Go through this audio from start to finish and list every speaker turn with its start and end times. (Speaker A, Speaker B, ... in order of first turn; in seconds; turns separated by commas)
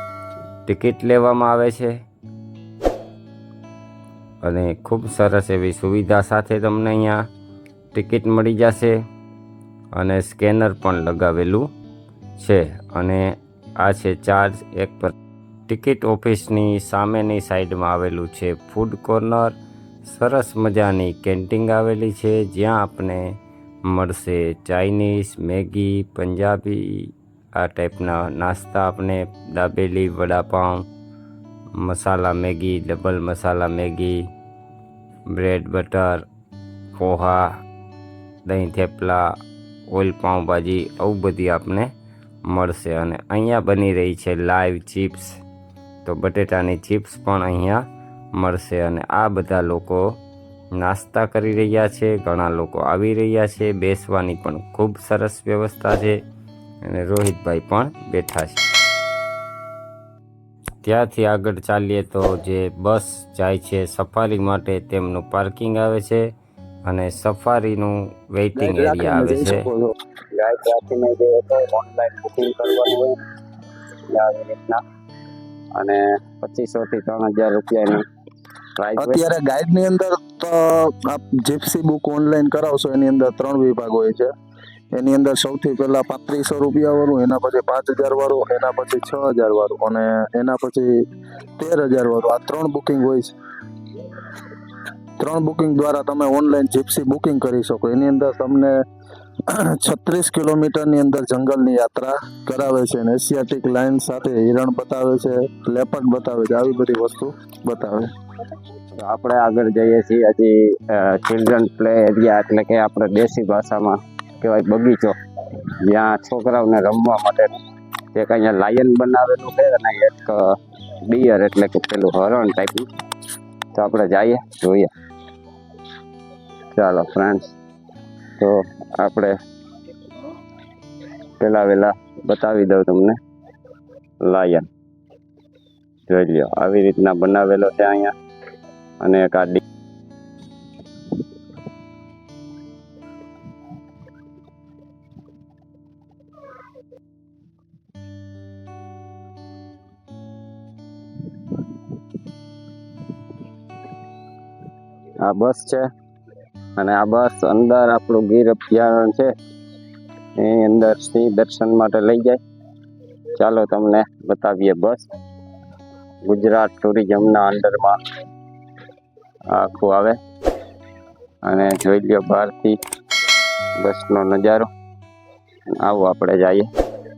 Speaker A: 0.7-1.9, Speaker A: 4.6-7.2, Speaker B: 4.6-6.1, Speaker B: 6.6-6.9, Speaker A: 8.0-8.9, Speaker A: 10.0-11.6, Speaker B: 11.1-11.5, Speaker A: 12.4-13.2, Speaker A: 13.8-15.1, Speaker A: 15.7-19.5, Speaker A: 20.1-23.2, Speaker A: 23.9-26.8, Speaker A: 27.6-30.8, Speaker A: 31.8-34.2, Speaker A: 35.4-36.2, Speaker A: 37.0-37.4, Speaker A: 38.5-39.2, Speaker A: 39.9-41.9, Speaker A: 42.5-45.2, Speaker A: 46.1-47.8, Speaker A: 48.4-50.0, Speaker A: 50.8-56.1, Speaker A: 56.9-58.5, Speaker A: 60.9-66.2, Speaker A: 66.9-69.6, Speaker C: 68.6-69.9, Speaker B: 70.3-73.2, Speaker B: 74.1-74.8, Speaker B: 75.8-78.0, Speaker B: 78.8-79.2, Speaker C: 79.0-84.3, Speaker C: 85.0-90.9, Speaker C: 91.6-93.3, Speaker C: 95.2-98.7, Speaker C: 99.7-108.1, Speaker B: 109.0-115.2, Speaker B: 115.8-117.6, Speaker B: 118.1-120.5, Speaker B: 121.1-122.9, Speaker B: 123.8-124.9, Speaker B: 126.7-127.5, Speaker B: 128.4-129.3, Speaker B: 131.4-133.2, Speaker B: 134.2-134.7, Speaker B: 136.1-138.1, Speaker B: 139.0-139.6, Speaker B: 155.2-155.9, Speaker B: 156.8-159.3, Speaker B: 160.4-162.4, Speaker B: 163.4-165.1, Speaker B: 166.3-168.0, Speaker B: 169.5-170.2, Speaker B: 171.5-172.8, Speaker B: 173.8-174.7, Speaker B: 175.8-176.7